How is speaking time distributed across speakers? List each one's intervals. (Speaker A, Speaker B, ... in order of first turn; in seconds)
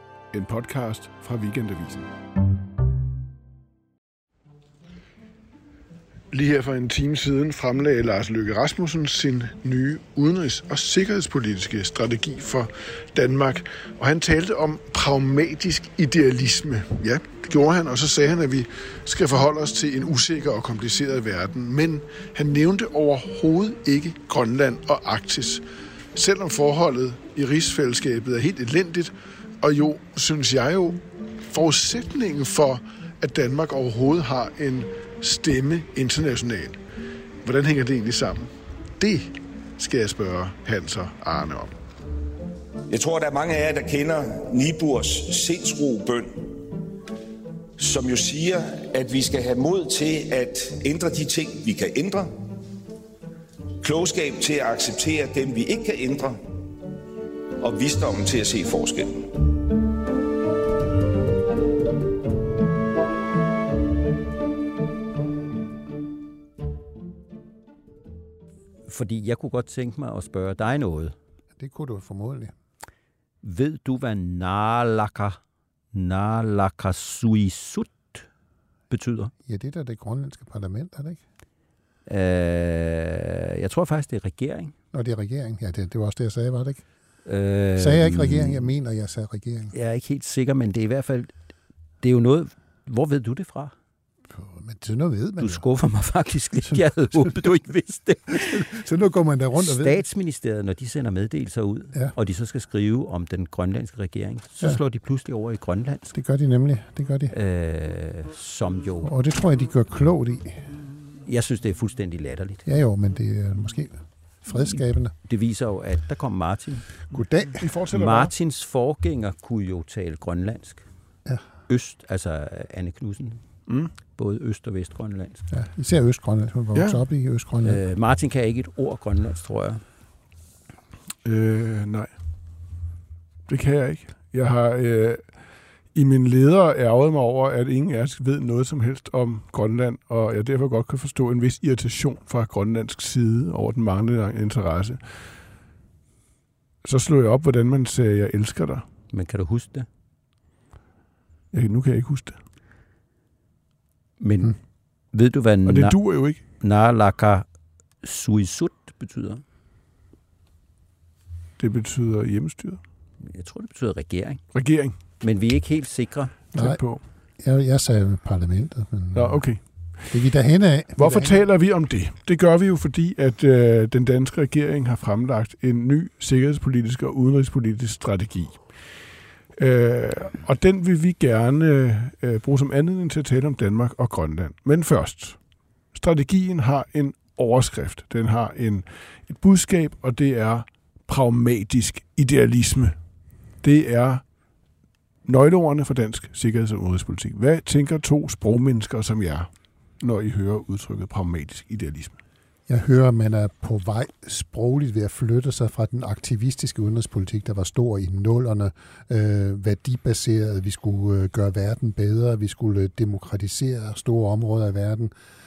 Speaker A: 0.3-2.1, 6.3-25.6, 26.1-36.8, 37.4-41.7, 117.6-118.3, 123.7-123.9, 126.7-127.0, 131.2-132.1, 133.5-135.2, 135.9-145.0, 146.8-148.8, 151.5-152.4, 155.7-156.4, 161.6-162.8, 164.5-164.9, 166.5-167.0, 169.1-170.1, 171.0-178.6, 179.6-185.4, 185.9-193.0, 193.6-194.2, 195.3-202.2
Speaker B: 42.9-46.4, 47.8-52.3, 53.8-56.4, 57.6-59.2
Speaker C: 68.9-71.2, 73.4-75.4, 75.9-78.3, 78.9-79.3, 82.1-84.7, 87.3-88.7, 89.7-91.3, 92.0-93.7, 95.4-98.7, 99.6-106.1, 107.3-109.1, 111.2-112.6, 115.2-116.9, 117.9-120.8, 121.7-123.4, 124.2-125.4, 127.6-129.8, 149.1-149.9, 154.2-154.6, 155.1-156.0, 156.6-157.5, 158.0-159.4, 163.2-164.4, 165.2-166.3
Speaker D: 71.6-72.5, 79.5-81.2, 84.9-86.8, 87.8-89.7, 94.3-95.6, 96.7-97.5, 98.3-100.0, 106.1-107.3, 109.0-110.7, 112.7-115.1, 117.1-117.7, 125.5-127.8, 166.6-166.8, 167.4-169.4, 170.1-171.4, 202.7-215.1